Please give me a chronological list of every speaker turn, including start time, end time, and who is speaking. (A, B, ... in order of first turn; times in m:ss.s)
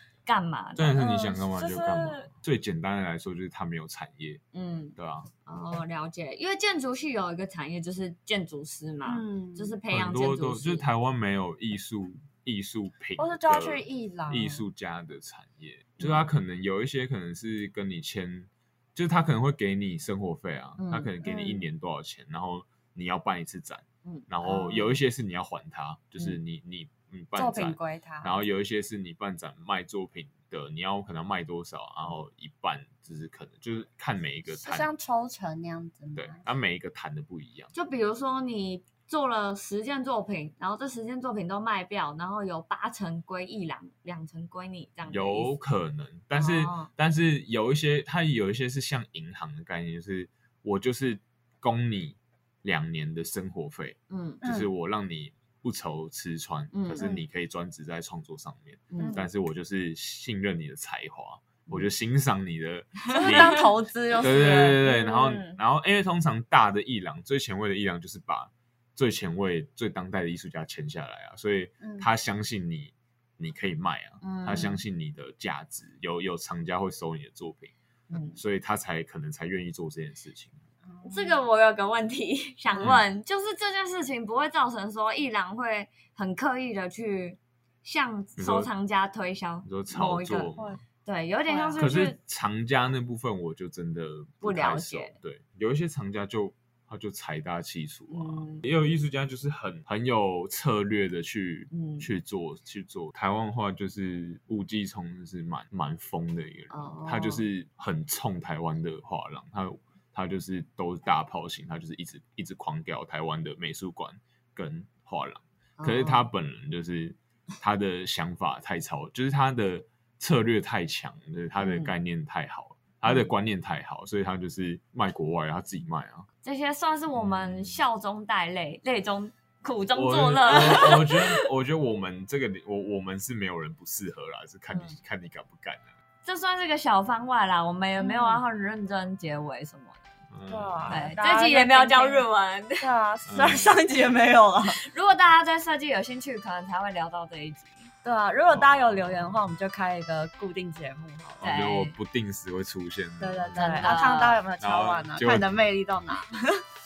0:00.2-0:01.2 A
0:00.8-0:04.4 B
0:01.0-0:02.3 C
0:04.5-0:10.8 A
0:05.0-0:05.3 B
0:09.0-0:09.8 C
0:09.9-0:34.9 B
0:13.2-0:14.6 C
0:16.0-0:16.3 A
0:20.8-0:21.1 A
0:21.2-0:21.6 C
0:24.0-0:24.7 A
0:24.4-0:24.7 C
0:27.4-0:28.3 C
0:34.6-0:36.4 C
0:36.2-0:37.7 B
0:37.7-0:45.5 A
0:45.1-1:17.7 B
0:46.3-0:46.9 A
0:54.1-0:54.4 A
0:54.4-0:54.7 C
0:56.7-0:57.2 A
0:58.9-0:59.2 A
0:59.0-0:59.2 C
1:03.1-1:04.9 C
1:03.2-1:03.5 A
1:04.2-1:05.6 A
1:11.8-1:12.1 C
1:14.2-1:14.8 A
1:18.1-1:18.4 A
1:18.3-1:20.6 B
1:20.9-1:21.3 C
1:21.0-1:30.5 A
1:22.8-1:23.0 B
1:28.4-1:28.7 B
1:29.6-1:30.7 B
1:30.5-1:30.8 C
1:31.0-1:32.2 A
1:31.5-1:31.9 C
1:31.8-2:06.3 B
1:34.4-1:35.1 A
1:38.1-1:38.6 A
1:41.7-1:42.1 A
1:46.7-1:47.4 A
1:55.8-1:56.3 A
2:01.6-2:01.9 A
2:06.4-2:11.4 A
2:07.1-2:07.7 B
2:09.9-2:15.8 B
2:16.2-2:20.1 A
2:18.0-2:18.4 C
2:20.3-2:21.1 B
2:20.5-2:22.2 C
2:20.9-2:22.8 A
2:22.8-2:24.8 C
2:23.2-2:23.7 B
2:24.8-2:27.9 A
2:28.0-2:31.4 C
2:31.4-2:34.1 B
2:31.4-2:31.9 A
2:33.2-2:36.6 C
2:33.6-2:34.4 A
2:34.6-2:35.6 B